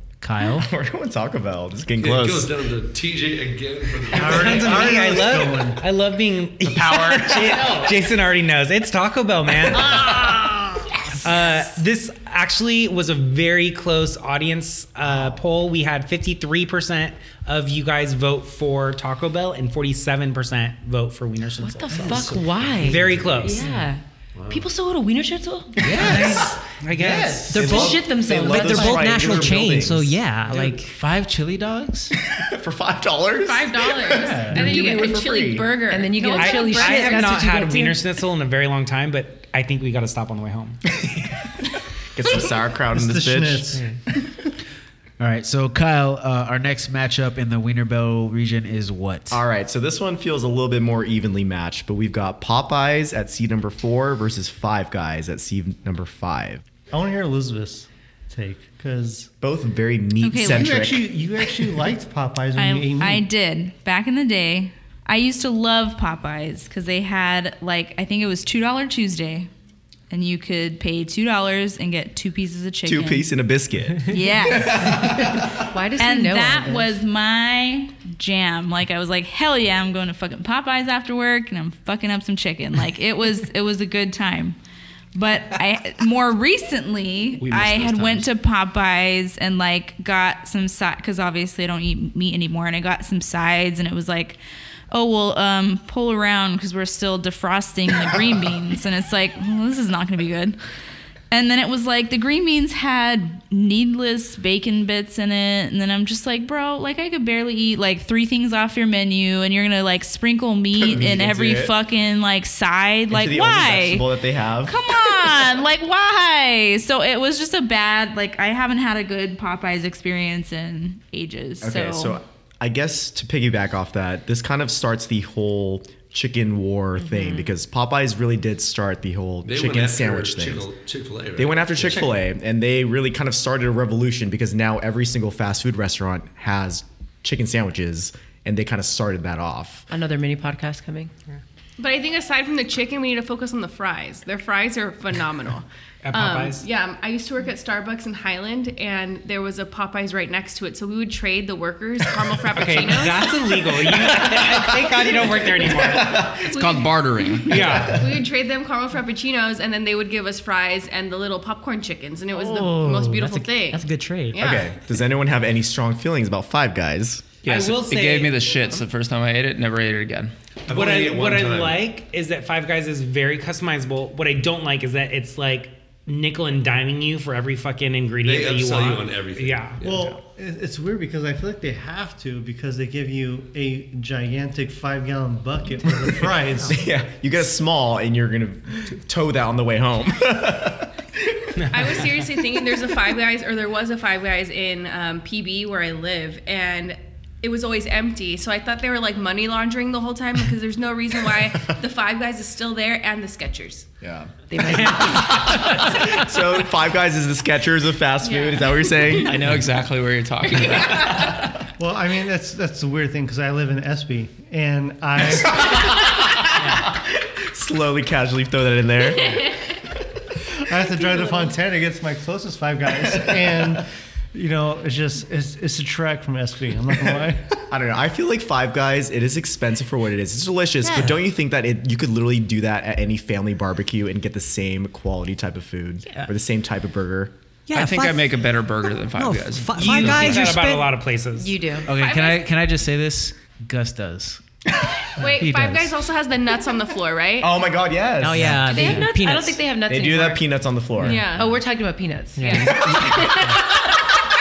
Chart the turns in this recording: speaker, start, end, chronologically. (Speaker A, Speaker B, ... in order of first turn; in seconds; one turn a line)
Speaker A: 0.2-0.7
Speaker B: 0.6-2.5
Speaker C: 2.0-5.0
Speaker D: 4.2-23.7
Speaker E: 4.2-5.8
Speaker B: 6.6-8.0
Speaker F: 21.6-26.5
Speaker C: 21.9-23.6
Speaker C: 24.4-24.7
Speaker A: 25.8-27.4
Speaker D: 26.0-27.6
Speaker B: 27.0-30.2
Speaker G: 27.5-30.9
Speaker F: 27.6-29.1
Speaker A: 30.6-32.1
Speaker B: 32.3-35.8
Speaker H: 33.4-37.1
Speaker F: 34.5-38.0
Speaker D: 36.2-40.8
Speaker B: 42.1-43.8
Speaker E: 42.9-43.9
Speaker A: 45.2-49.4
Speaker B: 49.3-56.6
Speaker E: 56.9-59.3
Speaker B: 59.4-61.1
Speaker I: 60.2-60.9
Speaker E: 60.4-63.3
Speaker I: 62.5-69.5
Speaker I: 70.1-73.3
Speaker B: 72.8-75.5
Speaker I: 74.1-75.3
Speaker F: 75.6-77.0
Speaker I: 76.0-84.6
Speaker I: 85.2-94.4
Speaker J: 87.4-88.3
Speaker I: 94.9-100.6
Speaker I: 101.3-114.1
Speaker B: 110.7-111.8
Speaker B: 113.1-115.5
Speaker I: 114.7-122.2
Speaker B: 121.6-130.7
Speaker F: 127.0-127.5
Speaker C: 129.4-132.1
Speaker B: 131.4-139.9
Speaker F: 139.9-141.1
Speaker H: 141.8-153.6
Speaker D: 146.0-146.7
Speaker D: 152.5-156.4
Speaker B: 154.3-154.8
Speaker B: 155.6-156.6
Speaker J: 156.4-157.9
Speaker H: 156.5-164.7
Speaker D: 157.4-158.2
Speaker B: 157.5-158.2
Speaker G: 162.3-164.5
Speaker B: 164.3-167.4
Speaker J: 167.4-170.3
Speaker D: 167.5-168.4
Speaker D: 170.7-179.8
Speaker C: 170.7-171.9
Speaker C: 178.2-180.1
Speaker E: 179.8-186.8
Speaker B: 185.9-191.6
Speaker D: 191.6-192.3
Speaker H: 191.7-203.9
Speaker B: 204.0-209.5
Speaker F: 204.5-205.7
Speaker H: 208.2-209.2
Speaker J: 209.1-211.5
Speaker H: 210.7-211.2
Speaker E: 211.8-215.8
Speaker B: 215.4-219.8
Speaker E: 220.6-227.6
Speaker B: 223.0-223.8
Speaker B: 227.6-237.3
Speaker G: 230.8-231.2
Speaker G: 237.7-238.4
Speaker J: 237.7-240.6
Speaker G: 239.2-241.0
Speaker D: 239.8-241.7
Speaker F: 241.4-241.9
Speaker A: 241.8-244.4
Speaker H: 242.0-242.4
Speaker H: 245.2-247.5
Speaker A: 245.4-245.9
Speaker B: 247.4-248.8
Speaker G: 248.2-249.6
Speaker A: 248.3-249.0
Speaker F: 248.7-250.4
Speaker B: 249.9-251.5
Speaker H: 251.0-251.5
Speaker F: 251.1-253.7
Speaker G: 252.4-252.9
Speaker B: 252.6-253.6